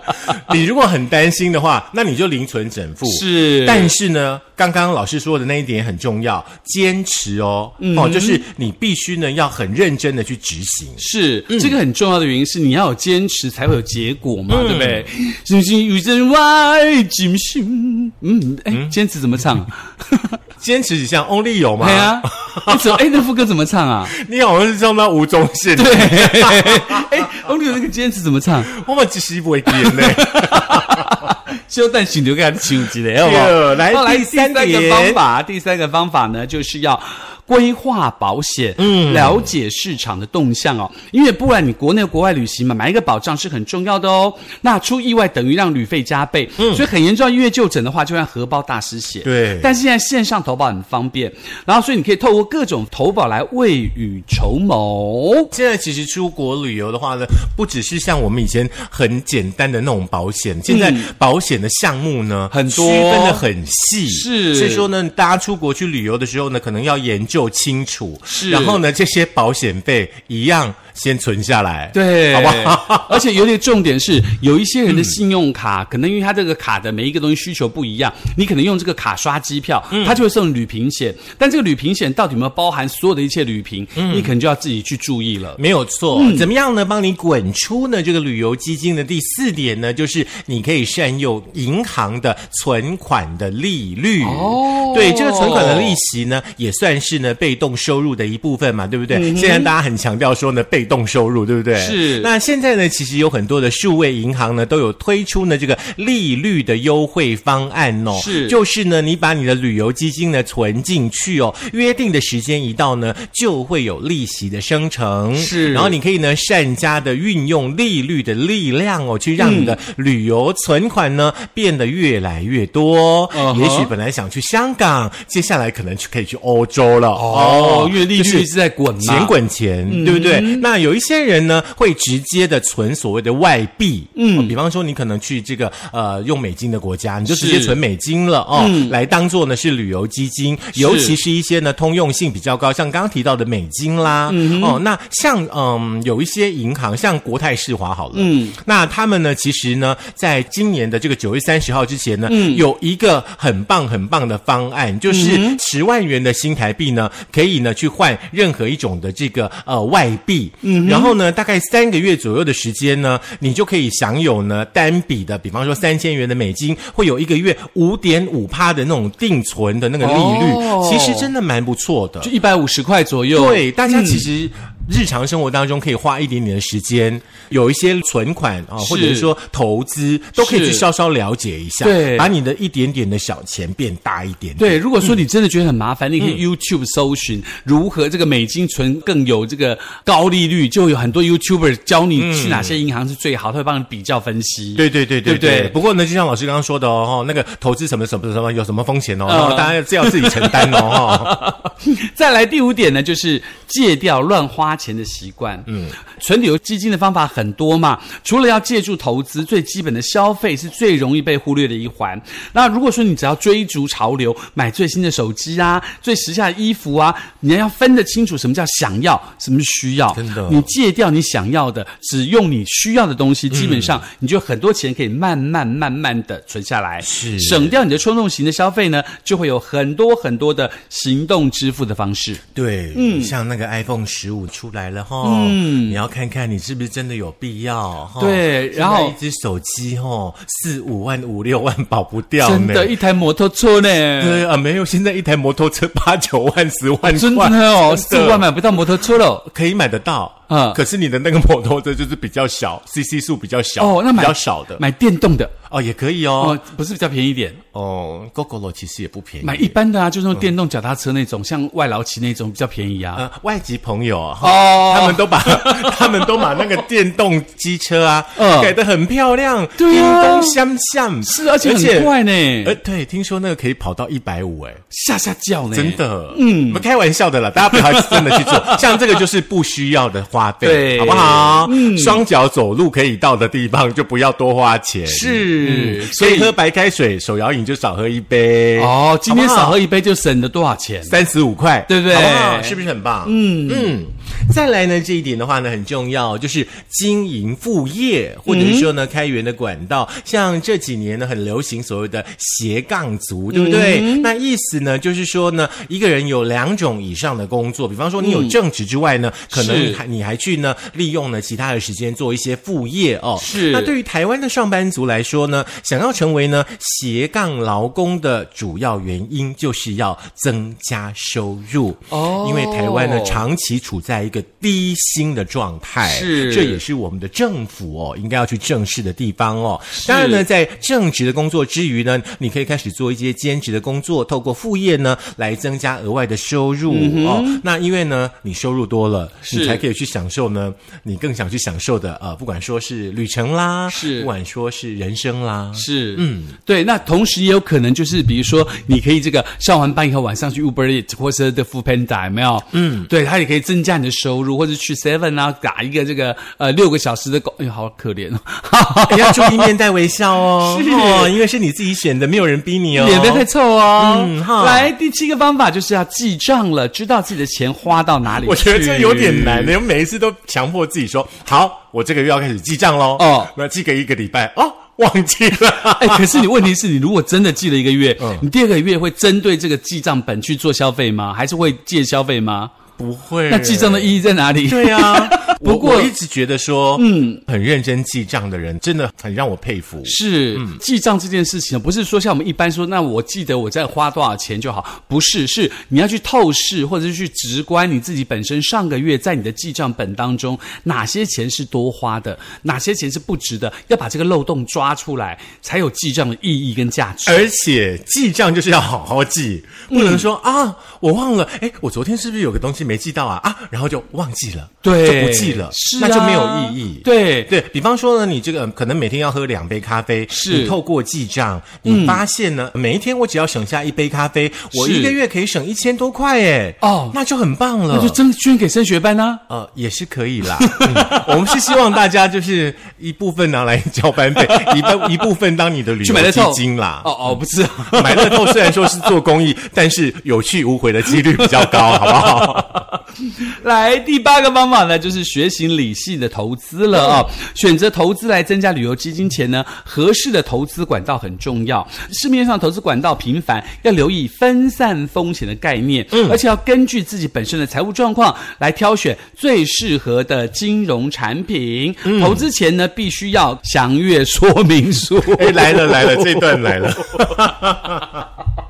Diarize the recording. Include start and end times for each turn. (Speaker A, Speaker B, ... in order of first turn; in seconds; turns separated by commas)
Speaker A: 0.2-11.8, Speaker B: 3.1-3.9, Speaker B: 7.8-8.4, Speaker B: 11.0-20.4, Speaker A: 14.5-15.1, Speaker A: 18.7-18.9, Speaker A: 20.6-23.0, Speaker B: 21.8-24.1, Speaker A: 24.1-27.1, Speaker B: 25.8-28.7, Speaker A: 28.7-31.3, Speaker B: 29.7-55.5, Speaker A: 33.2-35.2, Speaker A: 38.8-39.5, Speaker A: 46.6-46.9, Speaker A: 49.2-49.7, Speaker A: 55.5-73.2, Speaker B: 60.7-61.1, Speaker B: 62.5-63.4, Speaker B: 64.1-64.9, Speaker B: 68.3-68.8, Speaker B: 71.9-85.6, Speaker A: 74.9-75.2, Speaker A: 79.9-80.2, Speaker A: 84.0-84.3, Speaker A: 85.6-172.3, Speaker B: 86.1-86.5, Speaker B: 94.2-96.0, Speaker B: 99.1-99.7, Speaker B: 101.8-102.3, Speaker B: 108.1-108.6, Speaker B: 115.4-116.0, Speaker B: 119.4-119.8, Speaker B: 123.3-123.9, Speaker B: 127.1-129.3, Speaker B: 129.9-130.7, Speaker B: 134.2-134.5, Speaker B: 137.3-137.8, Speaker B: 138.6-138.9, Speaker B: 140.8-141.2, Speaker B: 144.3-144.8, Speaker B: 148.1-148.6, Speaker B: 152.3-152.6, Speaker B: 155.1-155.6, Speaker B: 160.6-161.1, Speaker B: 170.0-171.3, Speaker B: 172.2-174.3, Speaker A: 173.3-185.2, Speaker B: 178.8-179.3, Speaker B: 180.4-180.8, Speaker B: 181.8-182.3, Speaker B: 184.6-195.8, Speaker A: 192.2-192.8, Speaker A: 194.8-201.4, Speaker B: 199.3-232.4, Speaker A: 205.7-205.9, Speaker A: 220.1-220.7, Speaker A: 223.5-224.0, Speaker A: 227.0-227.8, Speaker A: 232.5-243.0, Speaker B: 232.9-233.3, Speaker B: 235.2-236.0, Speaker B: 238.2-239.2, Speaker B: 242.4-244.4, Speaker A: 244.2-254.8, Speaker B: 247.0-249.5, Speaker B: 250.5-250.8, Speaker B: 253.8-255.5, Speaker A: 255.7-256.6, Speaker B: 256.4-257.6, Speaker A: 257.7-259.8, Speaker B: 259.4-263.2, Speaker A: 263.1-274.8, Speaker B: 264.4-266.8, Speaker B: 268.4-268.8, Speaker B: 269.8-270.6, Speaker B: 271.2-272.8, Speaker B: 274.9-276.8, Speaker A: 275.7-289.8, Speaker B: 277.7-279.0, Speaker B: 280.6-282.2, Speaker B: 285.1-286.5, Speaker B: 288.8-291.2, Speaker A: 291.1-346.6, Speaker B: 291.9-293.9, Speaker B: 298.5-298.9, Speaker B: 303.5-304.3, Speaker B: 308.2-308.6, Speaker B: 309.5-310.0, Speaker B: 313.4-313.9, Speaker B: 322.1-323.4, Speaker B: 326.0-326.8, Speaker B: 330.0-330.4, Speaker B: 336.9-337.6, Speaker B: 339.5-339.8, Speaker B: 343.9-344.3, Speaker B: 345.8-359.7, Speaker A: 352.7-353.1, Speaker A: 359.1-364.9, Speaker B: 360.6-361.3, Speaker B: 362.9-369.8, Speaker A: 368.4-376.4, Speaker B: 373.2-373.5, Speaker B: 376.0-382.7, Speaker A: 378.2-378.4, Speaker A: 383.0-390.8, Speaker B: 383.5-386.1, Speaker B: 387.0-387.4, Speaker B: 390.1-407.5, Speaker A: 407.3-428.2, Speaker B: 409.9-410.2, Speaker B: 414.8-417.5, Speaker B: 420.3-420.8, Speaker B: 421.9-422.2, Speaker B: 424.7-425.2, Speaker B: 426.8-427.2, Speaker B: 427.9-429.4, Speaker A: 429.5-437.2, Speaker B: 430.6-431.8, Speaker B: 434.4-435.2, Speaker B: 436.0-439.1, Speaker A: 437.9-442.9, Speaker B: 441.3-467.1, Speaker A: 456.1-456.4, Speaker A: 462.1-462.4, Speaker A: 465.3-468.3